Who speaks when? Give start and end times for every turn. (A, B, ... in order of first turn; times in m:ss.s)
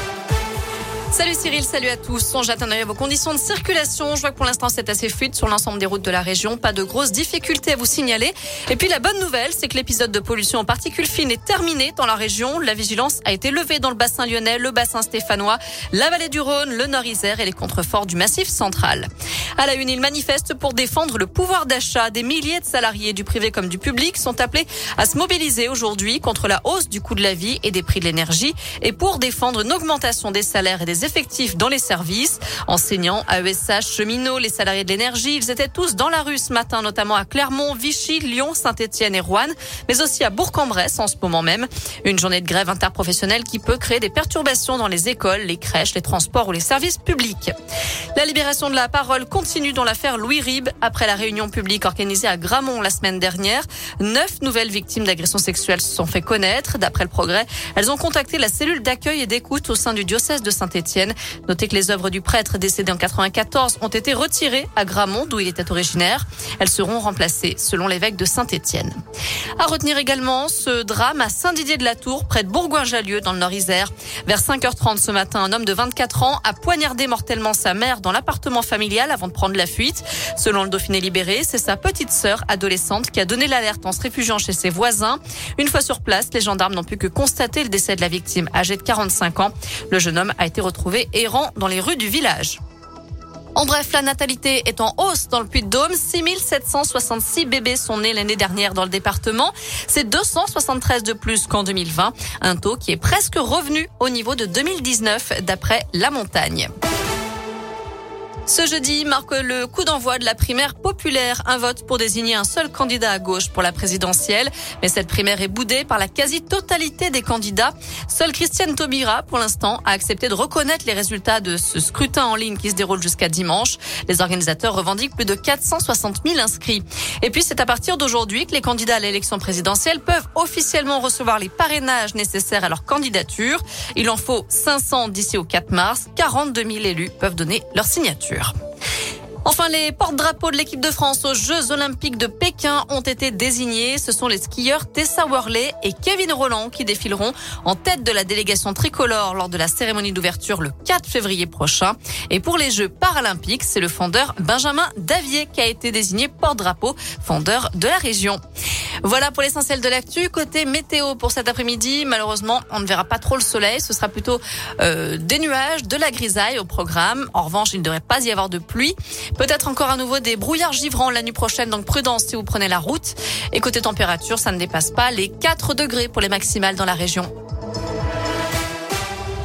0:01.1-0:19.1 A
0:19.6-0:47.5 A
0:48.2-1:09.0 A
1:09.6-1:32.6 A
1:33.6-1:46.7 A
1:48.5-2:18.5 A
2:19.4-2:38.4 A
2:39.0-2:57.3 A